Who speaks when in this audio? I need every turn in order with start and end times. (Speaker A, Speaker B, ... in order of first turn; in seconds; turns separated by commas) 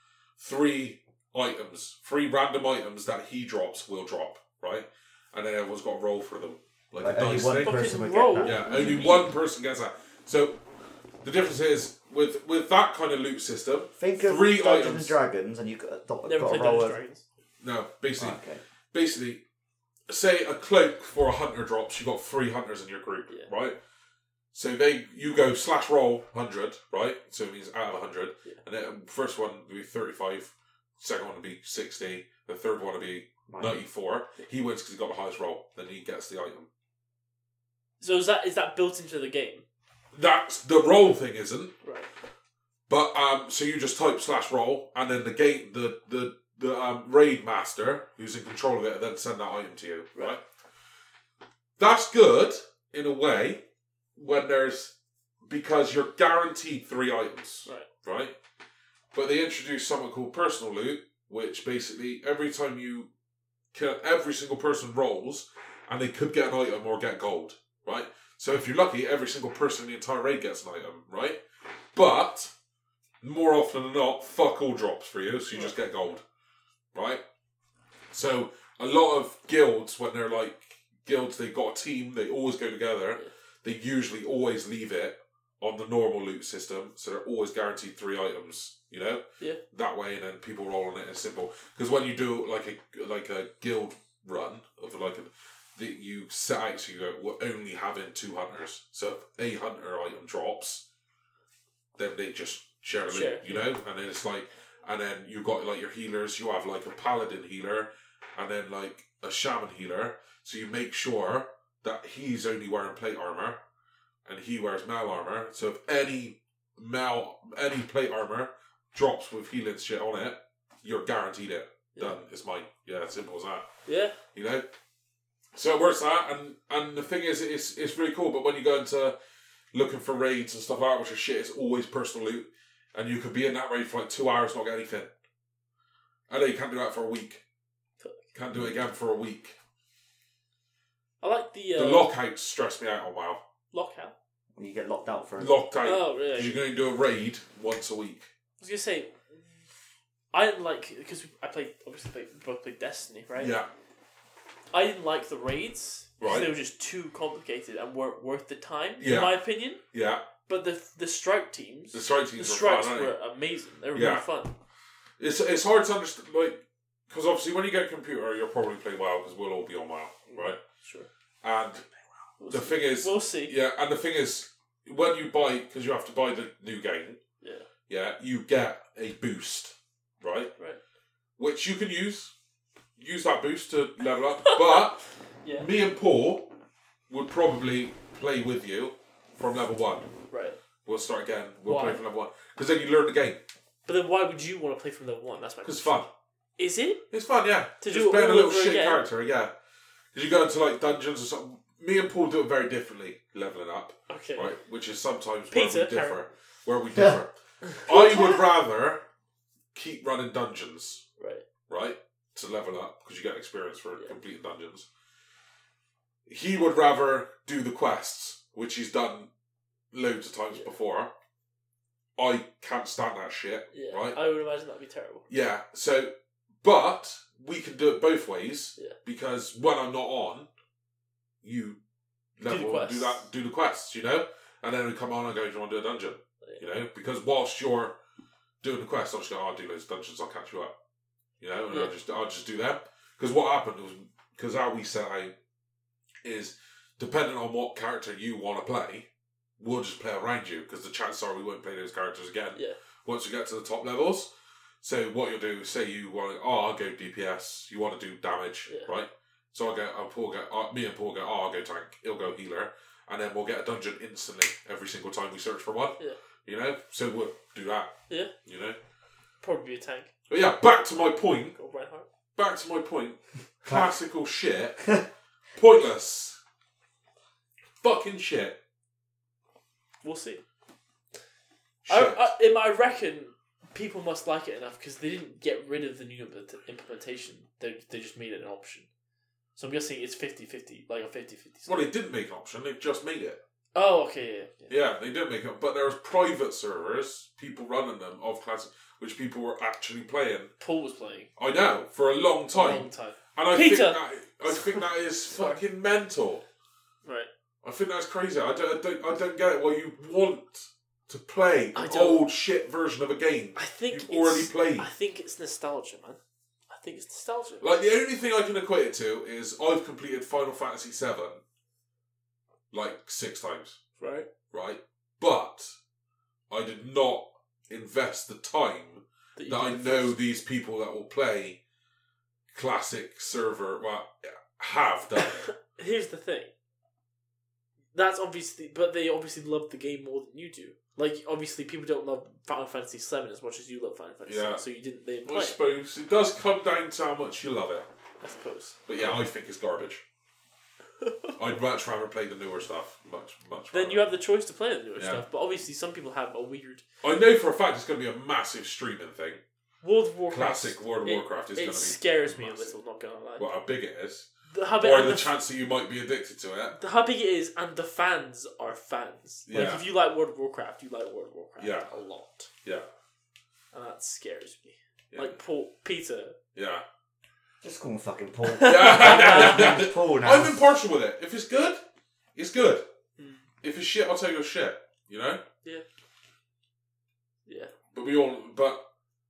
Speaker A: 0.4-10.6, Speaker B: 7.0-9.2, Speaker C: 7.6-9.1, Speaker A: 11.2-15.2, Speaker B: 14.0-17.0, Speaker C: 16.2-17.2, Speaker A: 17.6-18.4, Speaker B: 18.2-18.6, Speaker A: 18.9-19.4, Speaker A: 20.1-23.8, Speaker A: 24.5-36.7, Speaker B: 33.5-33.8, Speaker C: 38.0-39.6, Speaker A: 40.1-41.7, Speaker C: 41.8-42.1, Speaker A: 42.9-50.4, Speaker A: 51.8-53.6, Speaker A: 54.1-54.9, Speaker A: 55.5-58.4, Speaker A: 59.1-63.1, Speaker A: 63.7-71.4, Speaker A: 71.9-72.5, Speaker A: 73.2-76.2, Speaker A: 76.9-77.2, Speaker A: 78.1-100.8, Speaker A: 102.0-113.6, Speaker C: 103.1-103.7, Speaker A: 114.2-123.7, Speaker C: 123.8-124.2, Speaker A: 124.3-124.7, Speaker A: 125.5-129.2, Speaker A: 129.7-135.1, Speaker A: 136.3-137.4, Speaker A: 138.3-139.6, Speaker C: 141.2-142.1, Speaker A: 141.8-143.4, Speaker C: 143.7-144.1, Speaker B: 144.6-145.6, Speaker A: 145.4-148.3, Speaker C: 145.8-146.6, Speaker C: 148.6-149.4, Speaker C: 150.3-153.5, Speaker A: 153.4-153.7, Speaker C: 154.7-159.8, Speaker A: 156.2-156.5, Speaker A: 159.0-159.4, Speaker A: 159.9-160.3, Speaker C: 160.5-164.5, Speaker A: 161.9-163.1, Speaker A: 163.9-164.2, Speaker A: 165.2-170.6, Speaker C: 170.3-171.1, Speaker A: 171.4-171.9, Speaker C: 172.4-173.5, Speaker A: 172.5-177.2, Speaker C: 177.4-177.7, Speaker A: 177.9-180.5, Speaker A: 181.4-182.3, Speaker A: 183.0-185.0, Speaker C: 184.5-184.8, Speaker C: 185.4-185.7, Speaker A: 185.6-186.5, Speaker A: 187.1-190.1, Speaker C: 190.3-190.6, Speaker A: 190.8-193.4, Speaker C: 191.7-192.0, Speaker C: 193.8-196.0, Speaker A: 195.6-196.1, Speaker C: 196.6-197.0, Speaker A: 197.1-199.5, Speaker C: 197.8-199.0, Speaker A: 200.1-209.0, Speaker C: 204.1-204.5, Speaker C: 205.5-206.2, Speaker C: 207.7-208.4, Speaker A: 209.7-211.0, Speaker C: 211.2-211.4, Speaker A: 211.7-214.9, Speaker A: 216.2-219.3, Speaker A: 219.9-221.1, Speaker A: 222.2-224.2, Speaker C: 223.7-225.2, Speaker A: 225.3-230.5, Speaker A: 231.4-231.8, Speaker A: 232.4-237.9, Speaker C: 232.4-233.3, Speaker A: 238.6-240.7, Speaker A: 241.4-245.3, Speaker A: 246.2-249.1, Speaker A: 249.6-254.3, Speaker A: 254.8-268.8, Speaker C: 269.4-270.1, Speaker A: 270.3-271.6, Speaker C: 271.6-272.1, Speaker A: 272.4-274.9, Speaker B: 273.6-273.9, Speaker A: 275.6-276.4, Speaker A: 277.8-278.6, Speaker C: 280.0-280.4, Speaker A: 281.8-282.3, Speaker C: 281.9-288.9, Speaker C: 289.6-291.9, Speaker A: 291.6-293.4, Speaker C: 293.7-294.7, Speaker A: 294.7-300.5, Speaker C: 300.6-301.3, Speaker A: 301.4-306.4, Speaker C: 302.5-305.6, Speaker C: 307.0-307.3, Speaker A: 307.6-314.9, Speaker C: 311.7-312.2, Speaker C: 313.6-316.2, Speaker C: 316.7-317.6, Speaker A: 317.6-321.4, Speaker A: 322.7-323.8, Speaker C: 324.0-324.3, Speaker A: 324.5-325.7, Speaker A: 326.5-331.6, Speaker C: 329.4-330.1, Speaker A: 332.5-335.5, Speaker C: 335.6-336.5, Speaker C: 337.9-345.6, Speaker A: 344.2-344.6, Speaker A: 345.2-347.9, Speaker C: 348.2-348.8, Speaker A: 348.9-350.0, Speaker C: 351.0-351.3, Speaker A: 351.4-354.1, Speaker C: 353.7-356.8, Speaker A: 354.9-355.2, Speaker A: 357.0-359.4, Speaker C: 359.8-363.5, Speaker A: 360.3-362.7, Speaker A: 363.4-366.8, Speaker C: 364.5-365.3, Speaker C: 366.7-372.5, Speaker A: 369.5-369.8, Speaker A: 371.6-371.9, Speaker C: 373.7-376.4, Speaker A: 375.1-375.4, Speaker A: 376.5-376.8, Speaker B: 377.6-380.7, Speaker C: 378.5-379.8, Speaker A: 378.6-381.8, Speaker A: 382.3-382.9, Speaker C: 383.2-383.5, Speaker A: 383.6-385.4, Speaker C: 387.4-387.7, Speaker A: 387.9-388.8